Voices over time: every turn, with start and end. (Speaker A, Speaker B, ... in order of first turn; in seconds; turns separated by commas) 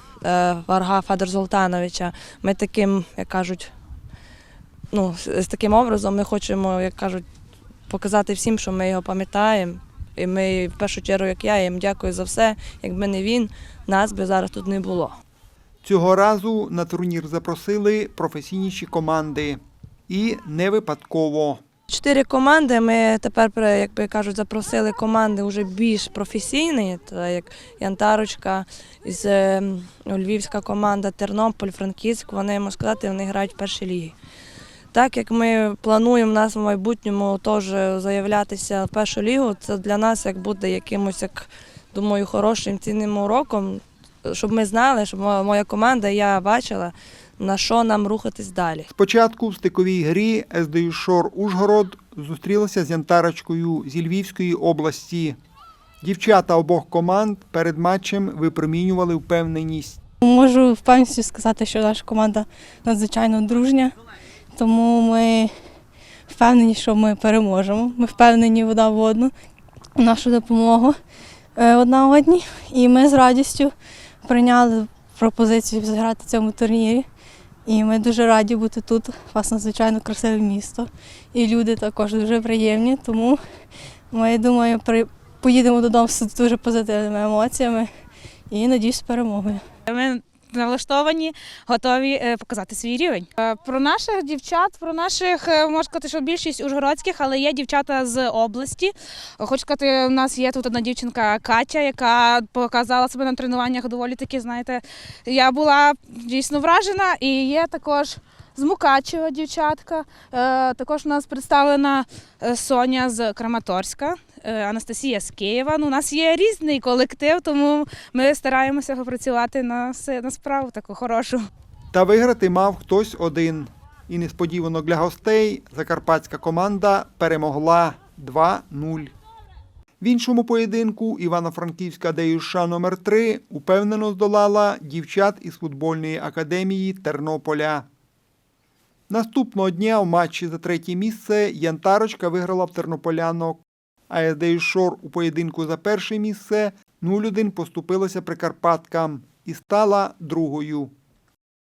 Speaker A: 0.2-3.7, Speaker A: 4.9-7.2, Speaker A: 7.9-15.2, Speaker B: 15.8-21.6, Speaker A: 21.9-34.1, Speaker A: 34.9-48.9, Speaker B: 48.9-55.4, Speaker B: 56.0-60.0, Speaker C: 60.2-63.9, Speaker C: 64.5-65.5, Speaker C: 66.3-69.3, Speaker C: 70.0-70.9, Speaker C: 71.6-73.7, Speaker C: 74.2-77.0, Speaker C: 77.7-83.4, Speaker C: 84.1-87.9, Speaker C: 88.5-89.6, Speaker D: 89.9-121.4, Speaker B: 121.9-129.1, Speaker B: 130.0-137.8, Speaker B: 139.1-150.9